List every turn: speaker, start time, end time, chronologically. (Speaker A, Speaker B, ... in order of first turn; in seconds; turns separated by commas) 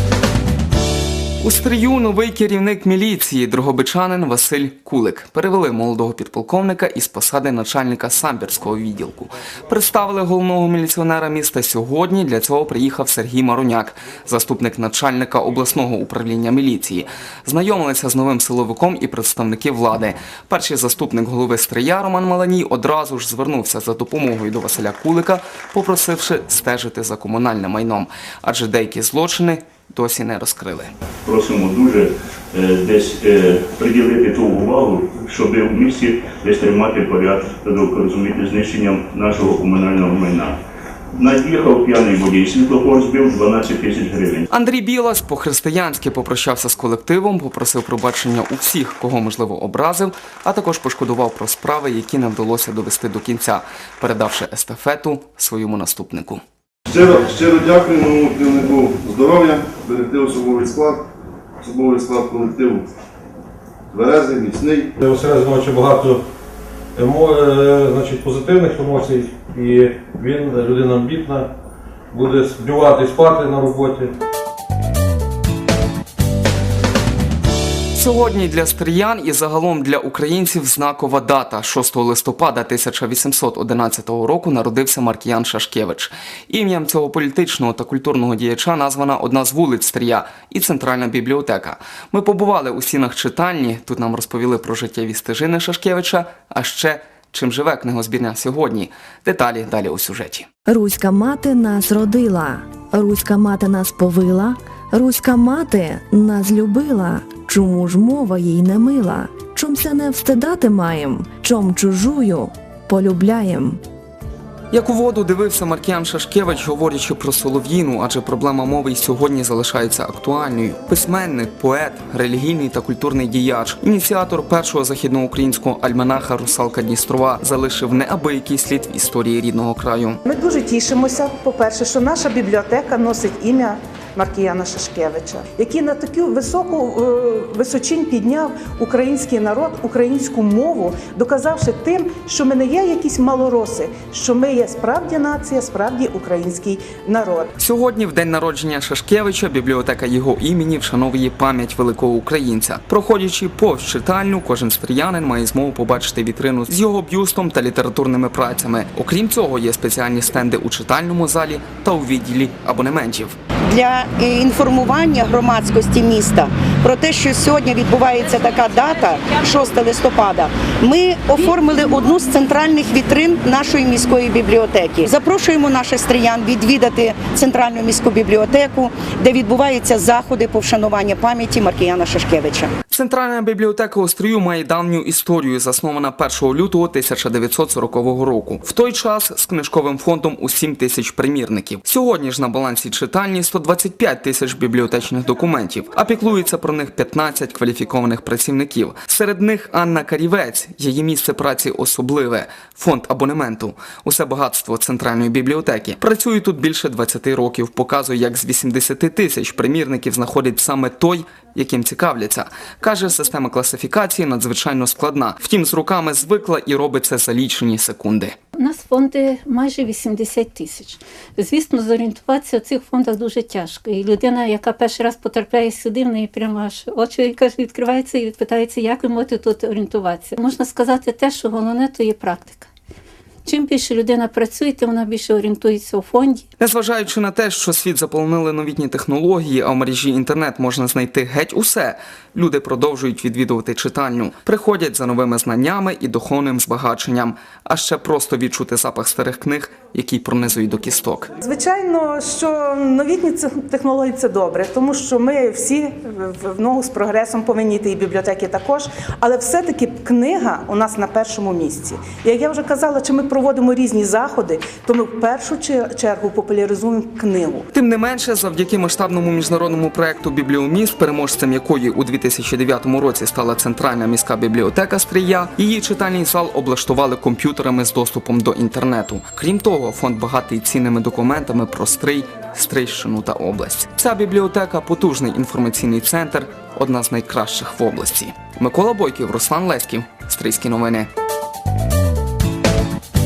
Speaker A: 1.4-30.9, Speaker B: 31.3-40.5, Speaker B: 41.2-44.5, Speaker A: 44.5-56.4, Speaker C: 56.9-61.0, Speaker C: 61.6-62.9, Speaker C: 63.9-64.9, Speaker D: 65.0-66.2, Speaker D: 67.0-71.5, Speaker D: 72.1-74.1, Speaker A: 77.9-100.5, Speaker E: 100.7-113.8, Speaker A: 114.7-130.2, Speaker F: 130.2-147.5, Speaker A: 147.6-163.4, Speaker G: 163.7-182.7, Speaker A: 182.9-218.4, Speaker H: 218.6-232.7, Speaker H: 233.4-236.4, Speaker A: 236.6-251.3, Speaker F: 251.4-267.6, Speaker A: 267.7-291.1